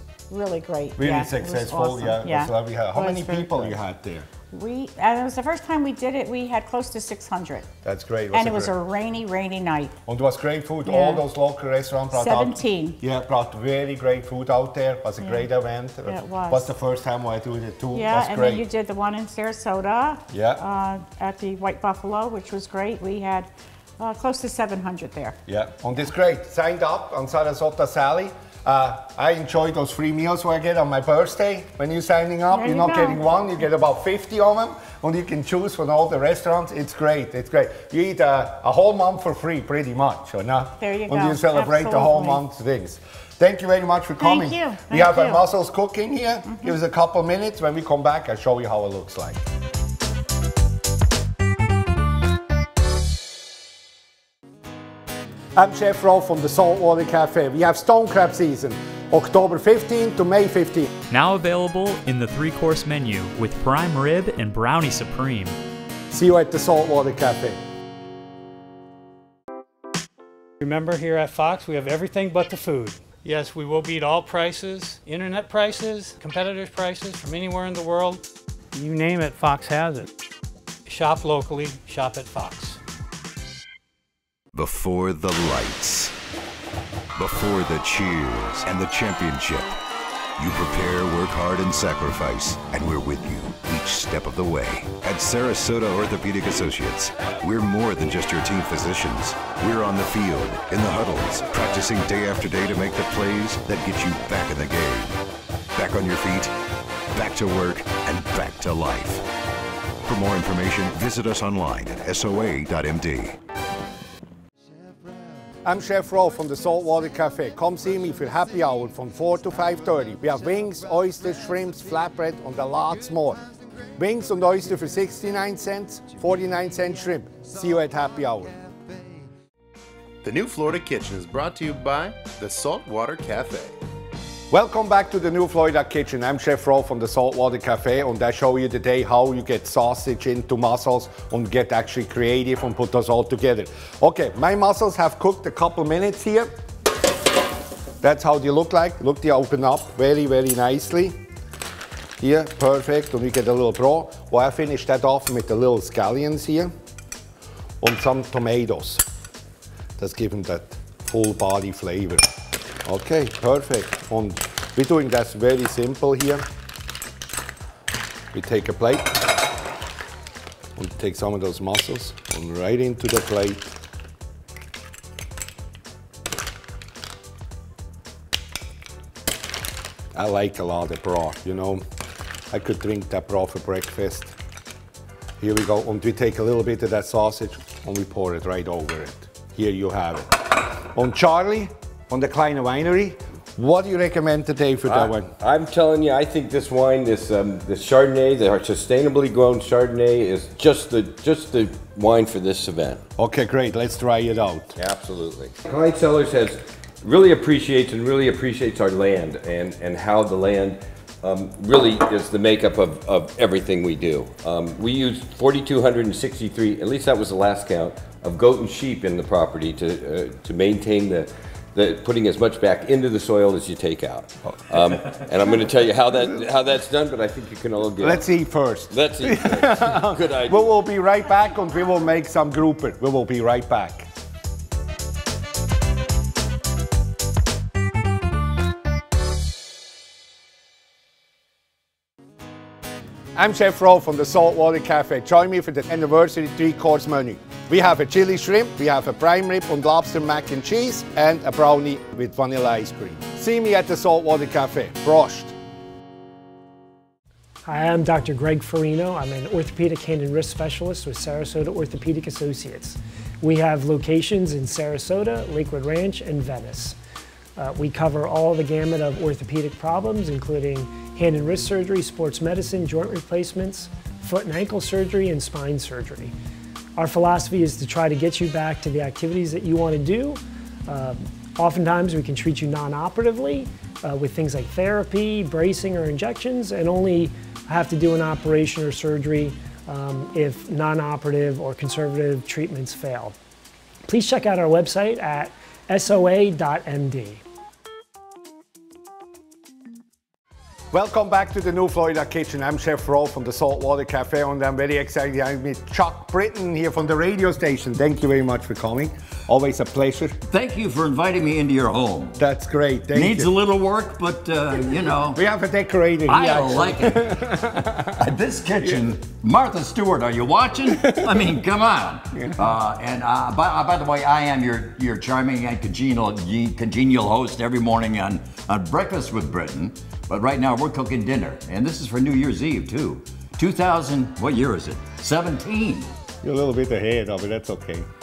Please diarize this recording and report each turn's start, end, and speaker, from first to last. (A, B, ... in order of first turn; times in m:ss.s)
0:00.3-0:03.8 A
0:01.0-0:04.3 B
0:04.5-0:07.7 A
0:07.8-0:08.7 B
0:08.3-0:09.9 A
0:10.0-0:18.6 B
0:10.8-0:11.2 A
0:12.1-0:13.0 A
0:15.2-0:15.5 A
0:16.0-0:16.7 A
0:17.9-0:25.4 A
0:20.3-0:20.6 B
0:25.5-0:49.4 B
0:32.5-0:33.2 A
0:40.8-0:42.4 A
0:44.2-0:45.4 A
0:55.6-1:00.9 B
1:01.1-1:05.6 C
1:06.1-1:07.6 B
1:10.6-1:18.2 D
1:18.7-1:20.1 D
1:20.8-1:22.8 D
1:24.5-1:26.1 E
1:27.2-1:29.7 E
1:30.4-1:45.2 E
1:45.7-1:46.5 E
1:47.1-1:49.2 E
1:50.0-1:53.4 E
1:55.6-2:03.4 B
2:04.0-2:08.6 B
2:10.2-2:13.7 F
2:14.5-2:26.5 B
2:28.0-2:31.2 B
2:32.2-2:36.7 B
2:37.8-2:39.0 B
2:40.0-2:42.2 B
2:42.8-2:46.4 B
2:48.3-2:49.3 B
2:50.8-2:53.7 B
3:00.1-3:01.8 B
3:02.5-3:04.3 B
3:05.4-3:15.3 B
3:14.9-3:23.0 G
3:23.2-3:24.8 B
3:24.8-3:48.3 G
3:48.0-3:54.1 B
3:48.9-3:50.8 G
4:03.3-4:15.5 B
4:17.6-4:27.0 H
4:27.6-4:36.3 H
4:37.0-4:53.4 H
4:54.1-4:57.4 H
5:00.9-5:10.4 B
5:10.5-5:12.4 I
5:12.4-5:13.5 B
5:13.1-5:15.4 I
5:15.3-5:18.2 B
5:16.3-5:17.4 I
5:18.2-5:36.1 I
5:36.4-5:38.1 B